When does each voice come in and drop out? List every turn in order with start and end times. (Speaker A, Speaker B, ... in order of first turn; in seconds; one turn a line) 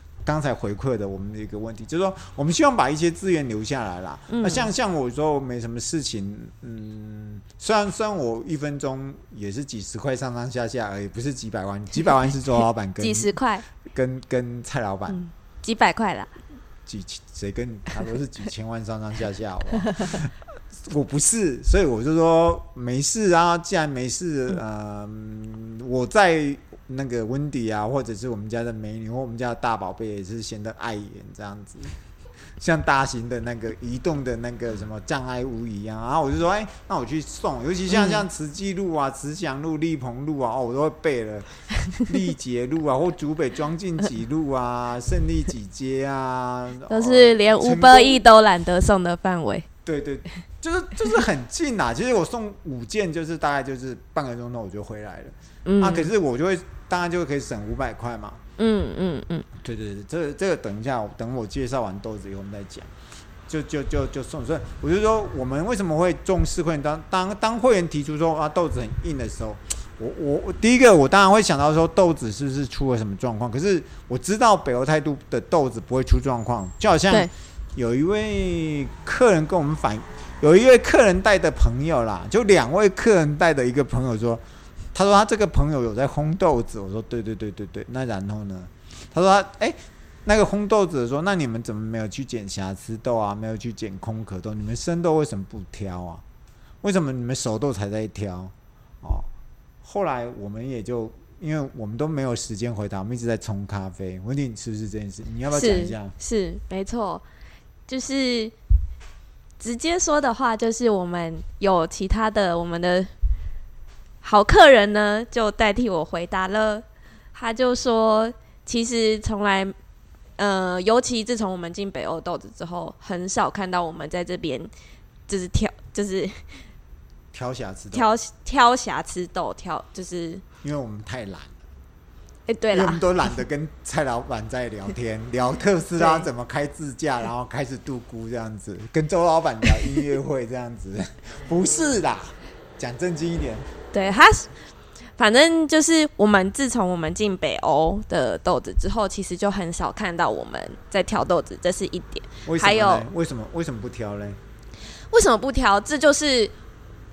Speaker A: 0.2-15.2
Speaker B: 4.3-4.7
Speaker B: 13.0-13.6
Speaker B: 15.1-16.3
Speaker A: 16.9-20.3
Speaker A: 20.9-31.9
Speaker A: 32.6-48.2
Speaker B: 37.9-38.2
Speaker B: 46.9-49.7
Speaker A: 49.8-58.4
Speaker B: 55.7-56.1
Speaker B: 58.6-59.5
Speaker A: 59.6-62.9
Speaker A: 63.5-84.4
Speaker A: 84.9-96.2
Speaker A: 96.8-99.3
Speaker A: 99.8-106.1
Speaker B: 105.5-107.2
Speaker B: 107.9-108.5
Speaker B: 109.6-113.1
Speaker B: 114.2-119.7
Speaker B: 120.4-124.7
Speaker B: 125.3-126.5
Speaker A: 127.3-128.1
Speaker B: 127.9-130.4
Speaker A: 130.6-131.6
Speaker B: 132.5-133.0
Speaker A: 132.7-143.7
Speaker B: 136.0-136.3
Speaker B: 143.9-144.5
Speaker B: 145.2-153.1
Speaker A: 152.4-154.4
Speaker B: 155.1-156.5